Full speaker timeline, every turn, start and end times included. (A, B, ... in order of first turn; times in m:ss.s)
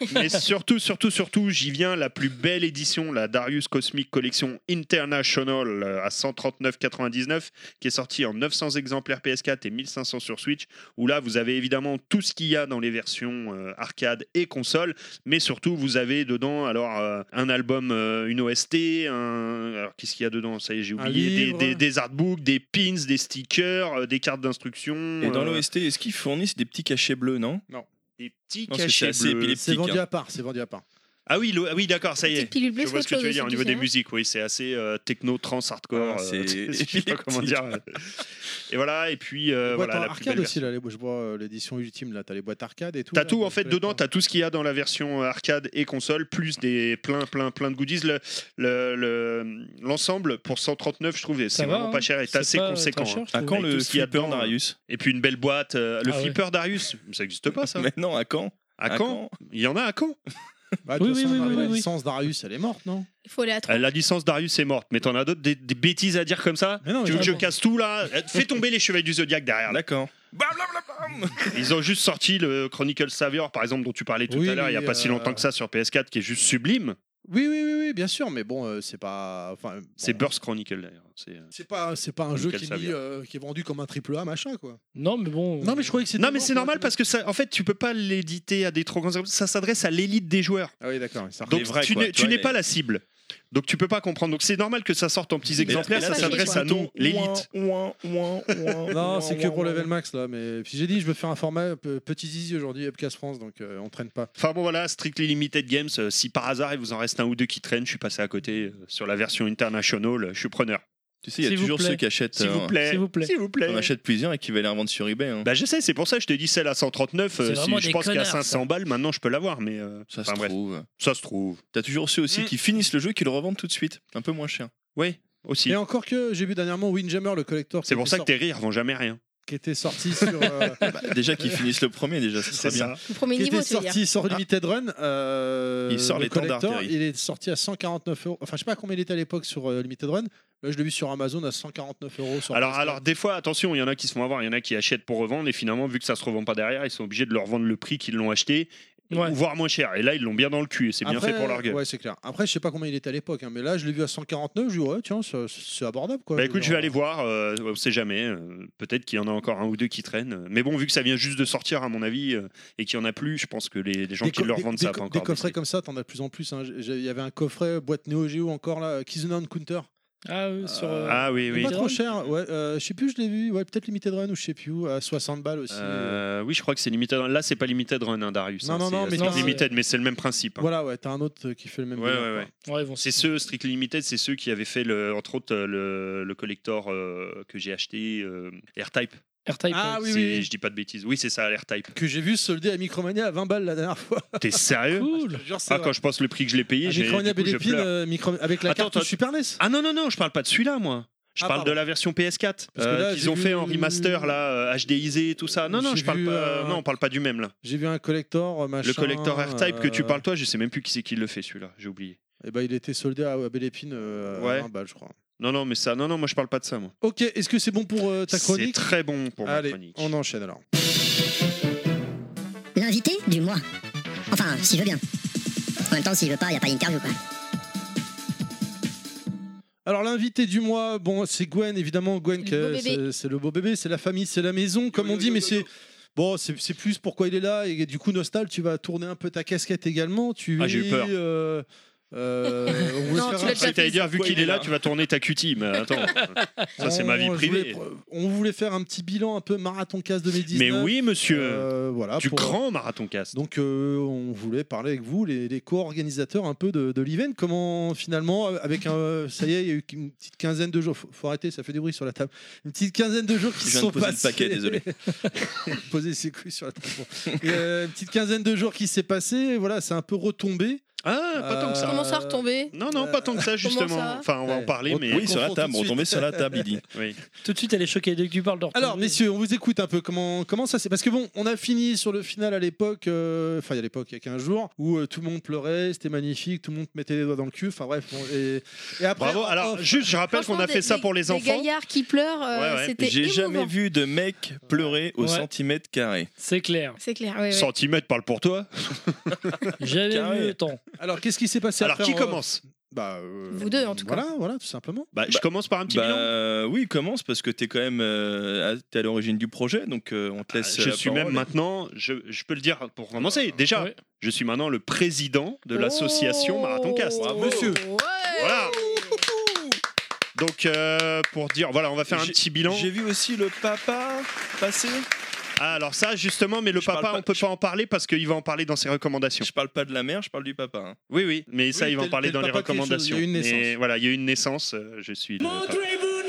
0:00.1-0:25.6 A
0:21.0-0:21.8 B
0:25.2-0:27.6 C
0:28.2-0:29.6 A
0:28.7-0:30.0 C
0:29.6-0:30.8 B
0:31.3-0:40.7 A
0:32.3-0:33.9 D
0:35.9-0:37.6 C
0:39.7-0:44.0 B
0:43.1-0:57.9 A
0:51.6-0:53.6 E
0:53.3-0:54.8 C
0:56.1-0:56.4 E
0:57.6-0:59.3 C
0:58.8-1:00.2 A
1:00.9-1:03.1 B
1:01.0-1:01.9 E
1:03.2-1:03.9 D
1:03.7-1:09.8 A
1:06.8-1:07.4 B
1:07.1-1:07.4 E
1:09.7-1:11.7 C
1:11.5-1:17.0 A
1:14.3-1:15.5 B
1:17.3-1:20.3 B
1:20.0-1:21.5 A
1:21.5-1:24.8 B
1:22.4-1:23.0 A
1:25.0-1:25.9 E
1:25.6-1:26.9 B
1:26.2-1:30.7 A
1:30.8-1:31.6 B
1:31.5-1:37.5 A
1:31.5-1:32.6 C
1:35.6-1:36.6 D
1:35.6-1:39.9 C
1:38.9-1:44.3 B
1:44.4-1:50.8 A
1:51.2-1:52.8 C
1:51.4-1:52.0 E
1:52.4-1:53.9 A
1:52.8-1:53.3 E
1:53.7-1:55.5 C
1:55.4-2:01.6 A
1:57.4-1:58.6 E
2:00.1-2:00.9 C
2:01.7-2:04.7 C
2:05.0-2:05.8 A
2:05.7-2:08.3 B
2:07.9-2:09.2 A
2:09.5-2:10.8 B
2:10.8-2:13.0 C
2:12.5-2:13.0 A
2:13.1-2:14.0 D
2:13.4-2:23.0 B
2:15.9-2:16.9 C
2:22.5-2:31.8 A
2:29.1-2:29.4 E
2:31.0-2:36.9 B
2:36.4-2:45.6 A
2:44.2-2:49.9 B
2:50.3-2:52.0 E
2:50.6-2:56.2 B
2:51.1-2:51.7 A
2:55.7-3:00.7 A
2:58.6-2:59.6 B
2:59.2-2:59.7 E
3:00.6-3:02.5 B
3:02.0-3:02.5 A
3:02.6-3:03.2 E
3:03.0-3:09.2 A
3:09.5-3:10.0 E
3:09.7-3:10.5 B
3:10.0-3:12.0 A
3:12.0-3:14.6 B
3:14.4-3:15.1 A
3:14.9-3:15.4 E
3:15.2-3:15.9 B
3:15.7-3:17.9 A
3:16.8-3:19.6 B
3:18.6-3:27.5 A
3:21.4-3:21.8 B
3:22.8-3:24.3 B
3:25.7-3:26.8 B
3:27.6-3:30.2 B
3:28.8-3:32.2 A
3:32.4-3:35.2 B
3:34.4-3:34.7 A
3:35.4-3:36.9 A
3:37.0-3:38.9 B
3:38.3-3:40.1 A
3:39.4-3:40.6 B
3:42.8-3:43.6 F
3:44.3-3:45.0 F
3:45.9-3:47.2 F
3:49.9-4:03.7 B
3:52.4-3:53.0 D
3:54.9-3:55.7 C
4:00.6-4:01.1 A
4:03.1-4:04.4 D
4:03.4-4:04.7 C
4:03.5-4:07.8 A
4:06.8-4:12.6 B
4:10.5-4:13.4 A
4:13.3-4:30.8 B
4:23.6-4:24.9 C
4:31.0-4:32.1 A
4:31.4-4:33.4 B
4:31.8-4:32.8 D
4:32.7-4:35.3 A
4:33.6-4:34.3 D
4:34.5-4:36.7 B
4:35.1-4:36.8 C
4:36.9-4:37.2 A
4:37.4-4:39.2 E
4:38.7-4:50.1 B
4:49.2-4:51.7 A
4:50.3-4:53.7 D
4:52.5-4:53.0 A
4:53.0-4:56.3 C
4:55.2-4:55.5 E
4:56.4-4:57.0 E
4:57.0-4:57.7 D
4:57.5-4:59.6 A
4:59.8-5:00.8 E
5:00.1-5:00.6 C
5:01.0-5:05.1 B
5:01.8-5:02.6 A
5:03.5-5:04.3 D
5:05.1-5:06.3 A
5:05.3-5:11.5 C
5:10.5-5:17.5 A
5:15.7-5:19.2 D
5:17.2-5:17.8 C
5:17.4-5:17.8 B
5:18.4-5:18.8 A
5:20.4-5:22.9 A
5:22.1-5:25.1 C
5:25.6-5:29.5 A
5:26.8-5:27.4 C
5:29.4-5:31.0 C
5:31.1-5:35.8 A
5:31.7-5:33.7 B